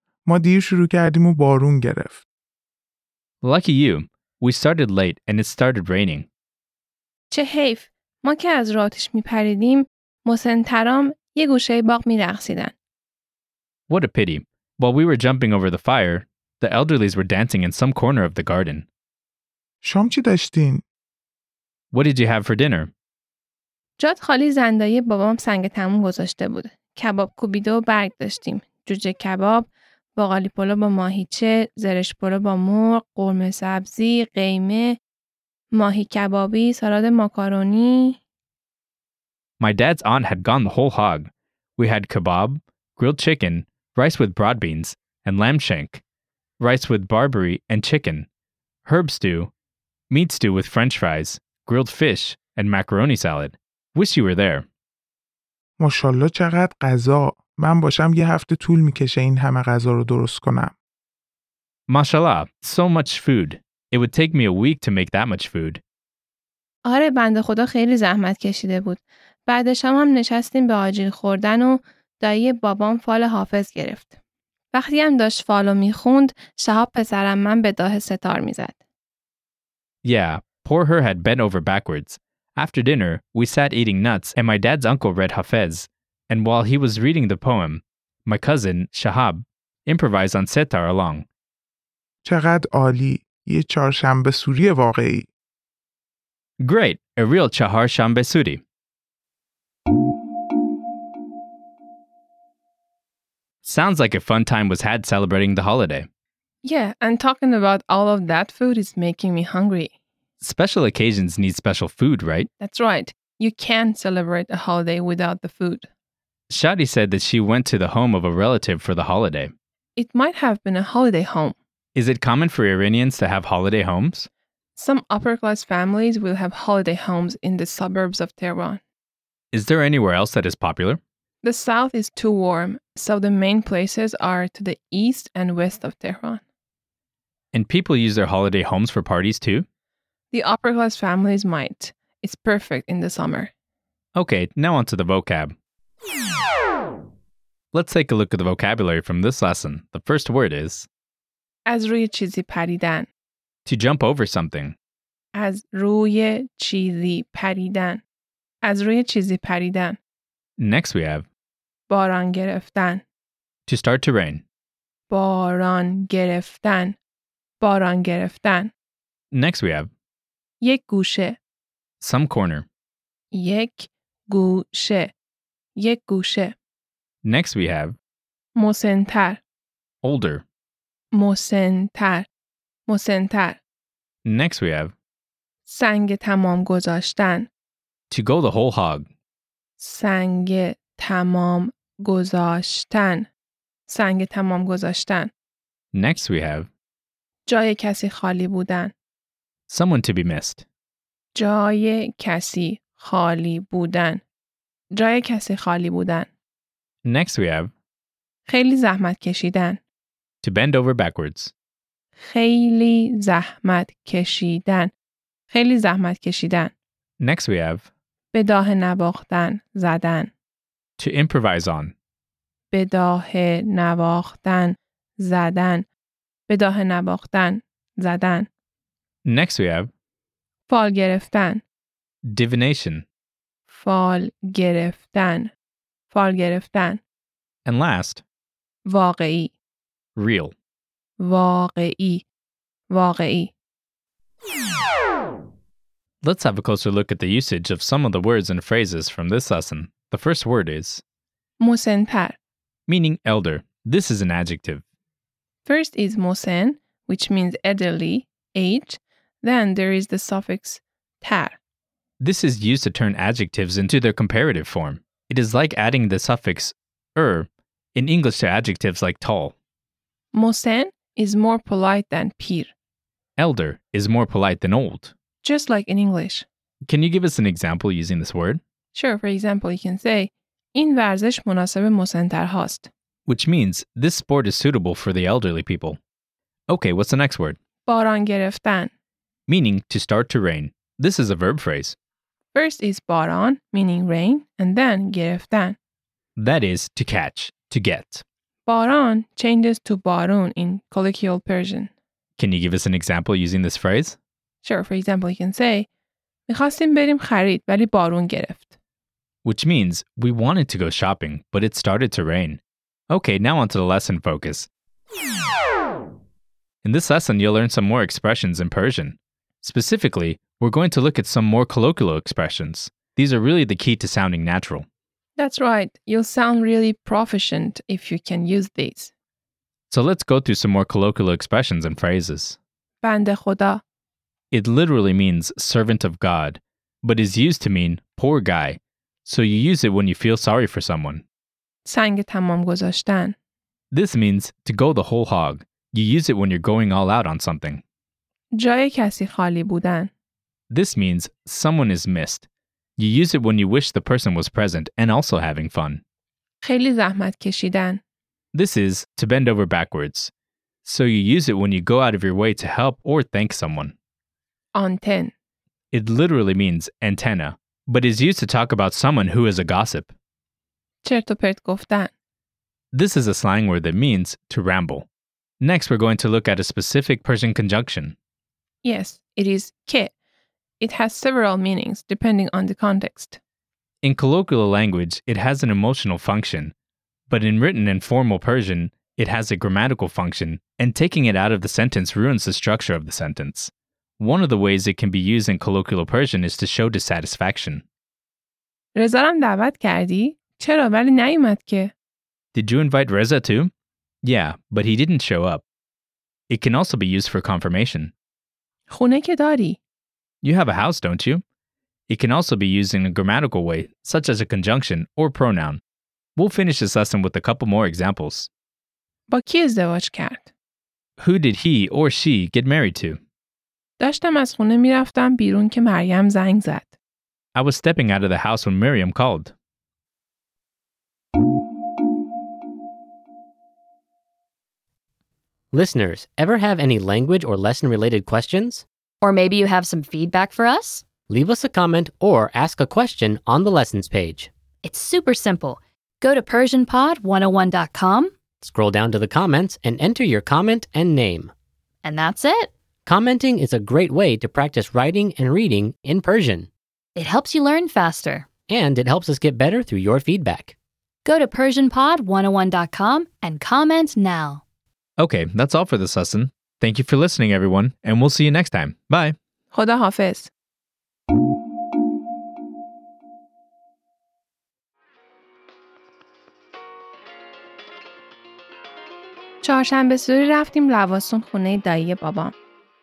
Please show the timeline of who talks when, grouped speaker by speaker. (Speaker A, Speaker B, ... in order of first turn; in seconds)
Speaker A: 0.2-2.2, 19.8-20.8, 55.8-60.7, 92.2-95.3
Speaker B: 3.4-6.3, 13.9-18.9, 21.9-22.9, 39.6-46.0, 46.6-48.3, 48.9-49.5, 50.1-54.6, 61.9-65.8, 80.0-91.3, 96.6-98.6, 103.6-106.1, 110.4-112.5, 116.5-119.5, 121.9-124.3, 129.5-131.0, 137.5-139.7, 144.1-145.5, 147.7-150.9, 153.6-154.8, 160.6-161.3, 163.7-164.4, 169.3-169.9, 172.0-172.7, 177.2-177.9, 180.0-180.4, 184.2-184.9, 188.1-189.1, 195.9-196.7, 199.7-200.6, 207.0-207.7, 210.4-211.5, 217.2-217.9, 221.0-221.9, 229.2-229.9, 232.3-233.0, 237.6-238.2, 240.2-240.5, 246.2-251.0, 252.9-254.8, 262.2-269.5, 273.4-275.1, 276.8-278.6, 283.3-286.0, 286.7-287.6, 289.5-291.9, 296.4-298.2, 302.4-304.2, 309.4-314.7, 316.8-324.9, 329.9-332.6, 334.5-341.2, 343.9-347.8, 350.7-352.5, 353.0-356.0, 358.5-360.3, 360.8-363.9, 365.9-370.1, 372.9-375.1, 375.6-378.1, 384.0-386.7, 387.3-397.8, 402.5-403.7, 404.2-405.6, 406.5-408.1, 410.4-411.4, 412.1-415.8, 416.4-418.5, 421.2-423.2, 427.5-429.5, 465.2-469.4
Speaker C: 7.3-12.7, 24.0-34.9, 35.7-38.2, 66.8-74.1, 74.7-78.8, 106.6-109.9, 112.6-115.9, 120.0-121.5, 124.8-128.8, 131.4-136.4, 140.3-143.5, 151.7-153.1, 155.3-158.0, 158.6-160.0, 161.9-163.0, 165.1-167.0, 167.6-168.7, 170.6-171.4, 173.3-175.1, 175.8-176.5, 178.6-179.4, 181.1-182.3, 182.9-183.6, 185.7-187.5, 189.8-193.3, 193.9-195.3, 197.4-198.9, 201.3-204.2, 204.9-206.3, 208.5-209.8, 212.2-214.9, 215.5-216.7, 218.3-220.3, 222.7-225.9, 226.5-228.5, 230.7-231.6, 233.7-235.5, 236.1-237.0, 238.8-239.5, 241.2-242.2, 242.9-243.5, 251.6-252.4, 255.6-261.6, 270.3-272.7, 275.4-276.4, 278.9-282.9, 287.9-288.9, 292.5-295.8, 298.6-301.9, 304.6-305.9, 306.5-308.6, 325.4-329.1, 333.0-333.8, 341.8-343.3, 348.5-350.1, 356.6-358.0, 364.7-365.3, 371.0-372.1, 378.8-380.1, 380.8-383.4, 398.9-401.9, 408.9-409.8, 419.3-420.5, 424.0-426.9, 469.7-470.5, 479.6-482.5
Speaker D: 435.7-438.9, 441.3-444.5, 448.6-451.5, 453.1-456.7, 458.6-460.7
Speaker E: 439.2-441.1, 444.8-448.3, 452.0-452.7, 457.1-458.5, 461.2-464.6